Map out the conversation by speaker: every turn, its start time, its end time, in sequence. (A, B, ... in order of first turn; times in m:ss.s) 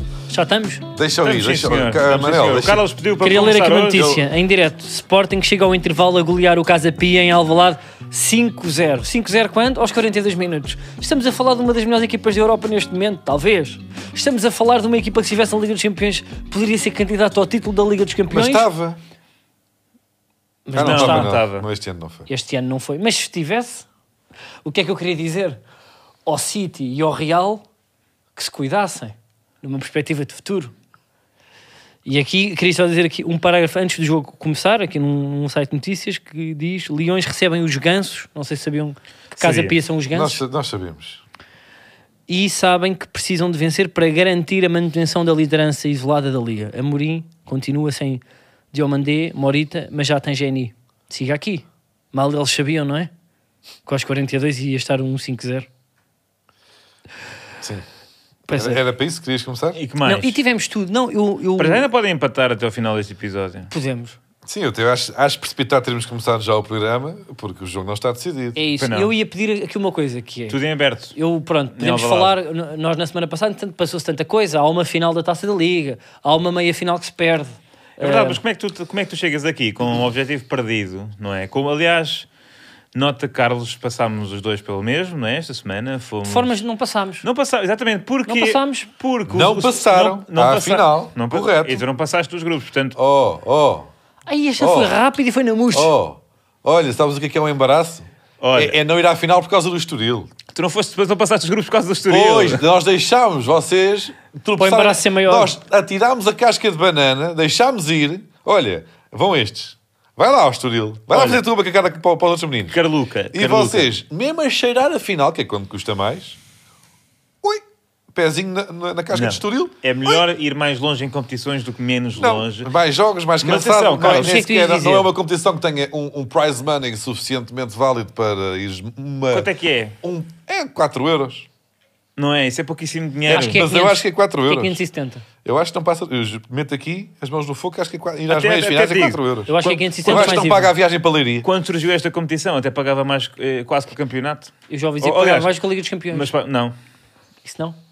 0:00.3-0:00.8 A
0:01.0-0:02.9 B
0:01.2-0:04.1 C
0:03.2-0:18.7 A
0:03.9-0:04.2 B
0:18.3-0:19.0 B
0:20.7-0:21.4 A
0:20.8-0:22.3 B
0:20.8-0:21.7 C
0:22.3-0:23.9 A
0:24.6-0:25.6 A
0:26.3-0:27.6 A
0:28.4-0:30.7 A
0:32.0-0:40.4 A
0:39.4-0:39.8 C
0:40.1-0:41.2 B
0:42.3-0:53.1 A
0:53.9-0:55.7 A
0:57.6-0:57.9 B
0:58.5-0:58.8 A
0:58.5-0:59.8 B
0:59.8-1:00.4 C
1:00.0-1:01.9 A
1:01.6-1:03.7 C
1:03.7-1:04.2 A
1:04.4-1:08.6 B
1:08.6-1:10.6 A
1:08.8-1:09.1 C
1:10.5-1:11.2 C
1:11.1-1:18.4 A
1:11.8-1:12.4 C
1:18.0-1:22.3 C
1:22.9-1:26.6 C
1:26.2-1:27.2 A
1:27.2-1:33.0 C
1:28.3-1:28.9 A
1:29.3-1:31.8 B
1:33.0-1:33.9 B
1:34.3-1:35.9 A
1:34.6-1:35.0 B
1:35.7-1:40.3 B
1:38.4-1:38.8 C
1:40.6-1:42.6 C
1:42.1-1:52.8 B
1:44.6-1:45.5 A
1:51.1-1:51.4 C
1:52.7-1:53.9 C
1:53.3-1:56.4 B
1:57.4-2:00.2 B
1:59.1-2:02.7 C
2:02.2-2:09.5 B
2:03.4-2:04.4 C
2:04.1-2:05.1 A
2:09.3-2:10.0 C
2:10.0-2:11.5 B
2:12.2-2:13.6 C
2:13.3-2:15.2 A
2:13.3-2:14.8 B
2:15.4-2:21.5 B
2:18.3-2:20.5 C
2:19.5-2:20.7 A
2:21.4-2:26.8 C
2:24.7-2:26.3 A
2:27.4-2:27.8 A